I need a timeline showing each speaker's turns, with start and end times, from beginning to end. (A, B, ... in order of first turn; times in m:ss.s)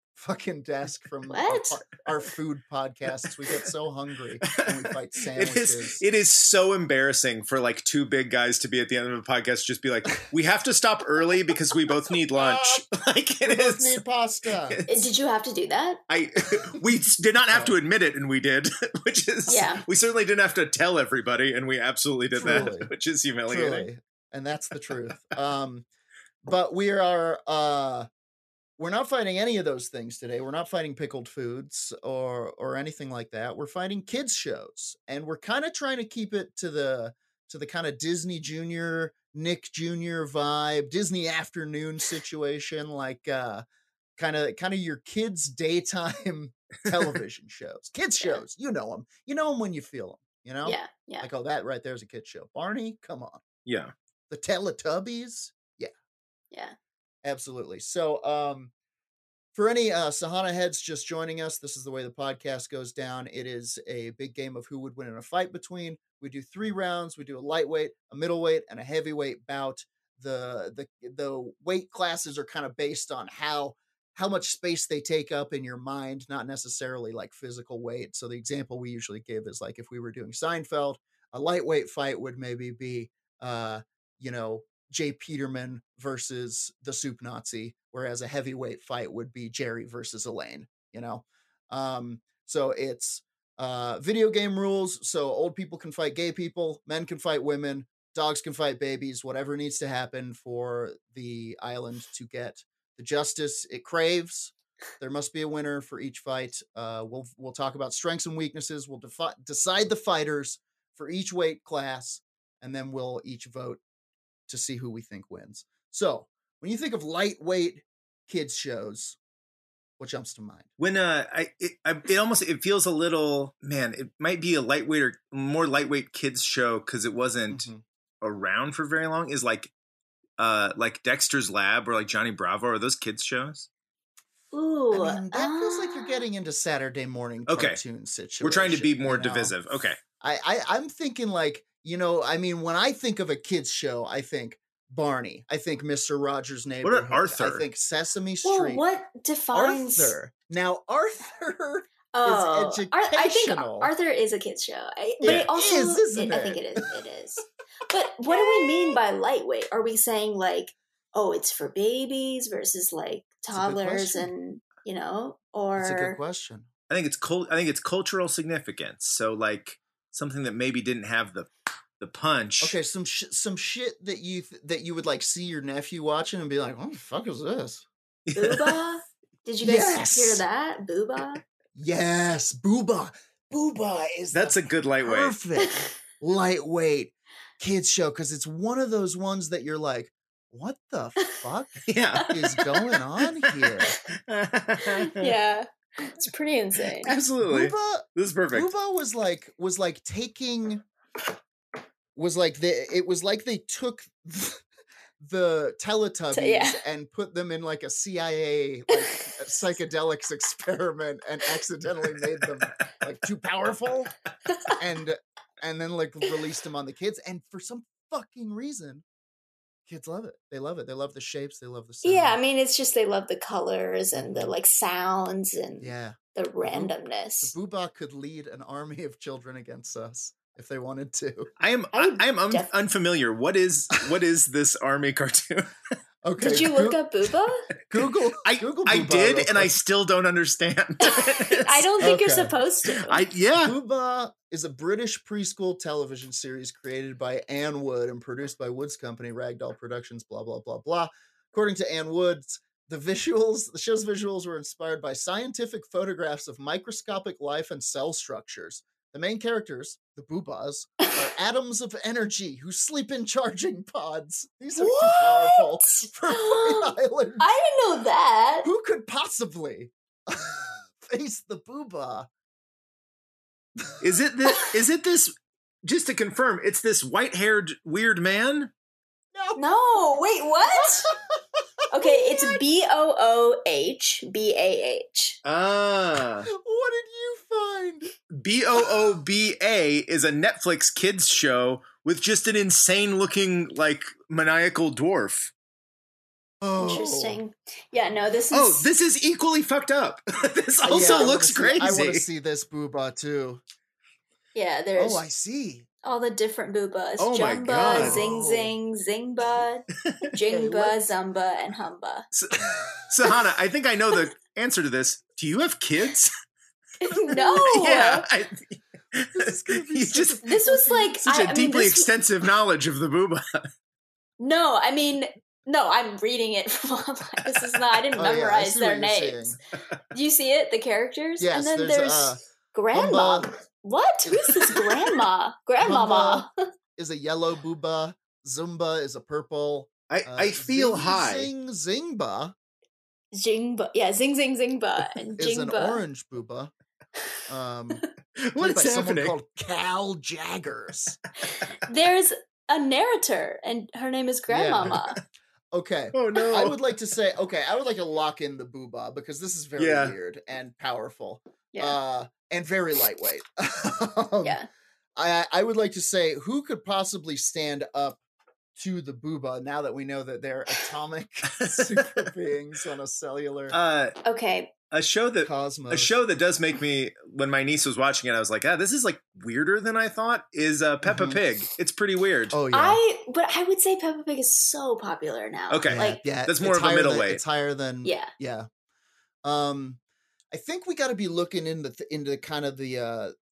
0:00.2-0:06.0 A
0:01.3-0:01.8 B
0:04.5-0:14.0 C
0:12.3-0:12.8 A
0:13.4-0:14.8 A
0:14.8-0:16.0 B
0:16.1-0:23.9 C
0:17.5-0:17.7 A
0:19.5-0:19.8 B
0:22.4-0:22.9 A
0:22.4-0:22.7 B
0:23.5-0:25.8 A
0:26.4-0:28.1 A
0:28.8-0:43.6 A
0:44.2-0:53.4 A
0:50.6-0:51.3 B
0:53.6-0:53.9 C
0:54.3-0:55.9 A
0:57.2-0:58.7 A
0:59.5-1:53.8 A
1:54.5-1:59.2 A
2:00.0-2:00.7 A
2:00.8-2:07.7 C
2:07.5-2:07.8 A
2:08.2-2:09.7 C
2:10.4-2:13.7 C
2:14.5-2:16.2 B
2:14.9-2:19.5 A
2:17.5-2:17.8 C
2:18.4-2:20.0 C
2:20.2-2:28.8 A
2:26.8-2:27.6 C
2:28.4-2:30.2 B
2:29.5-2:33.9 A
2:32.1-2:46.2 B
2:35.2-2:36.9 A
2:38.3-2:39.0 A
2:43.5-2:44.3 A
2:45.8-2:46.7 A
2:46.9-2:51.5 C
2:52.0-2:52.8 C
2:52.6-2:57.8 A
2:58.3-2:58.8 C
2:58.3-3:01.4 B
2:59.6-3:00.4 A
3:01.7-3:13.9 A
3:04.3-3:05.4 C
3:05.6-3:05.9 B
3:11.9-3:12.4 C
3:12.2-3:12.9 B
3:13.6-3:15.3 C
3:14.8-3:17.2 B
3:17.0-3:18.7 C
3:17.4-3:20.8 A
3:22.1-3:24.6 A
3:25.2-3:34.1 A
3:26.3-3:26.8 B
3:28.9-3:29.2 B
3:34.5-3:34.8 B
3:34.8-3:39.0 A
3:39.9-3:42.4 A
3:42.0-3:47.5 B
3:44.1-3:44.5 A
3:45.8-3:51.5 A
3:51.6-3:55.7 C
3:51.9-3:52.7 B
3:56.2-3:57.0 A
3:56.4-3:57.6 B
3:57.9-3:59.7 A
3:58.4-4:01.9 C
4:01.0-4:03.2 B
4:02.0-4:02.5 A
4:02.9-4:03.8 C
4:03.6-4:27.4 A
4:24.8-4:28.7 B
4:28.6-4:32.3 A
4:34.0-4:35.3 C
4:35.8-4:38.7 C
4:39.3-4:39.8 A
4:39.6-4:41.1 B
4:40.7-4:42.6 A
4:41.9-4:45.4 B
4:45.4-4:46.5 C
4:46.5-4:48.1 A
4:48.3-4:55.5 C
4:56.6-4:57.4 A
4:56.8-4:58.9 B
4:58.5-5:02.2 C
5:00.8-5:03.6 A
5:00.9-5:01.3 B
5:04.5-5:05.2 B
5:05.0-5:05.8 A
5:06.0-5:12.3 B
5:07.2-5:08.3 C
5:07.9-5:08.7 A
5:10.4-5:11.1 A
5:12.3-5:16.3 C
5:17.0-5:18.3 B
5:17.3-5:20.4 C
5:19.3-5:21.2 A
5:20.4-5:22.1 B
5:21.2-5:23.7 C
5:24.4-5:29.6 B
5:28.2-5:29.6 A
5:30.1-5:36.5 B
5:31.4-5:32.4 A
5:32.9-5:33.6 A
5:34.3-5:35.0 A
5:35.8-5:42.5 A
5:40.1-5:41.5 C
5:43.3-5:46.0 B
5:45.4-5:46.7 A
5:47.5-5:48.0 A
5:48.4-5:49.3 C
5:48.6-5:51.2 A
5:51.6-5:55.2 B
5:54.5-5:55.2 A
5:55.7-6:04.6 A
5:56.1-5:56.8 C
5:59.8-6:00.1 C
6:01.7-6:02.0 B
6:04.4-6:04.7 B
6:05.2-6:08.2 A
6:08.8-6:13.8 A
6:11.6-6:12.3 C
6:13.7-6:14.1 C
6:14.2-6:14.7 B
6:14.9-6:22.6 C
6:15.4-6:16.1 A
6:21.0-6:21.4 A
6:22.5-6:23.0 A
6:22.7-6:26.2 B
6:25.7-6:27.4 C
6:25.9-6:28.7 A
6:28.0-6:28.3 B
6:29.4-6:30.0 A
6:30.5-6:33.3 A